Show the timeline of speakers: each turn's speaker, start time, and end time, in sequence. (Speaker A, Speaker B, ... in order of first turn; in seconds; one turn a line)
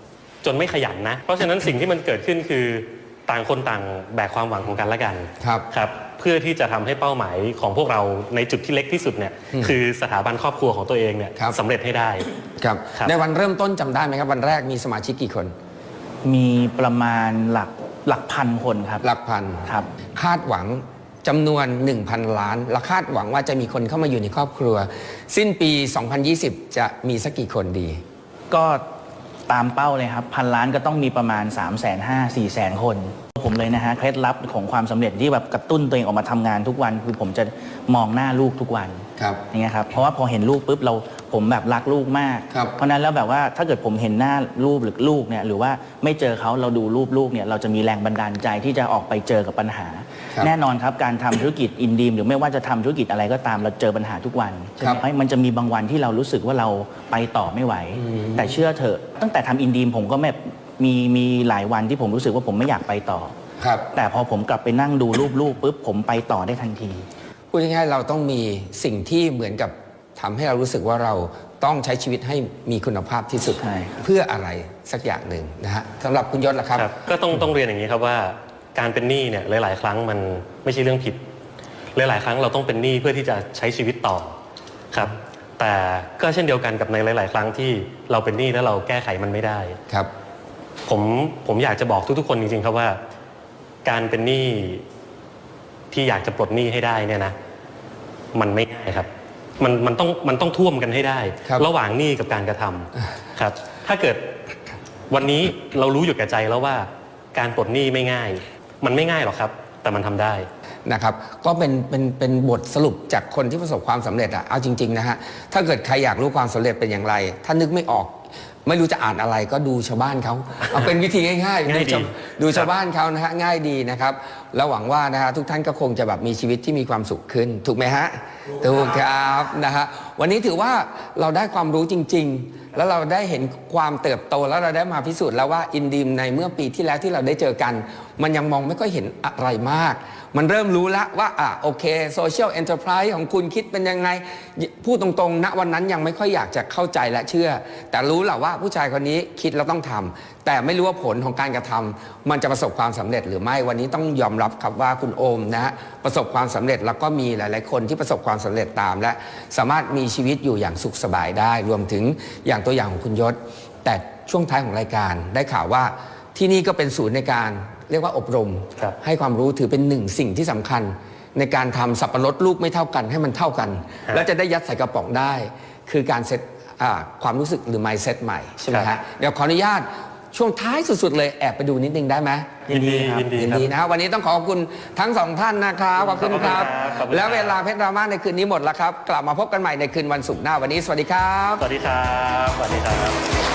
Speaker A: 0.4-12.3
Speaker B: 5.4-5.7
Speaker B: 12.6-15.5
Speaker C: 16.2-19.0
Speaker B: 19.0-28.0
Speaker C: 28.5-28.8
Speaker C: 29.5-63.3
Speaker B: 58.0-58.5
Speaker B: 63.6-63.8
Speaker C: 63.9-67.1
Speaker B: 67.5-76.9
Speaker C: 73.6-74.1
Speaker A: 76.8-81.2
Speaker A: 81.9-84.3
Speaker A: 84.9-89.8
Speaker A: 90.9-93.0
Speaker A: 93.8-94.8
Speaker A: 95.9-97.3
Speaker A: 98.3-99.1
Speaker A: 99.6-104.3
Speaker A: 105.1-110.5
Speaker B: 110.8-191.7
Speaker A: 121.7-122.7
Speaker A: 182.7-183.7
Speaker A: 186.0-187.6
Speaker A: 191.6-193.2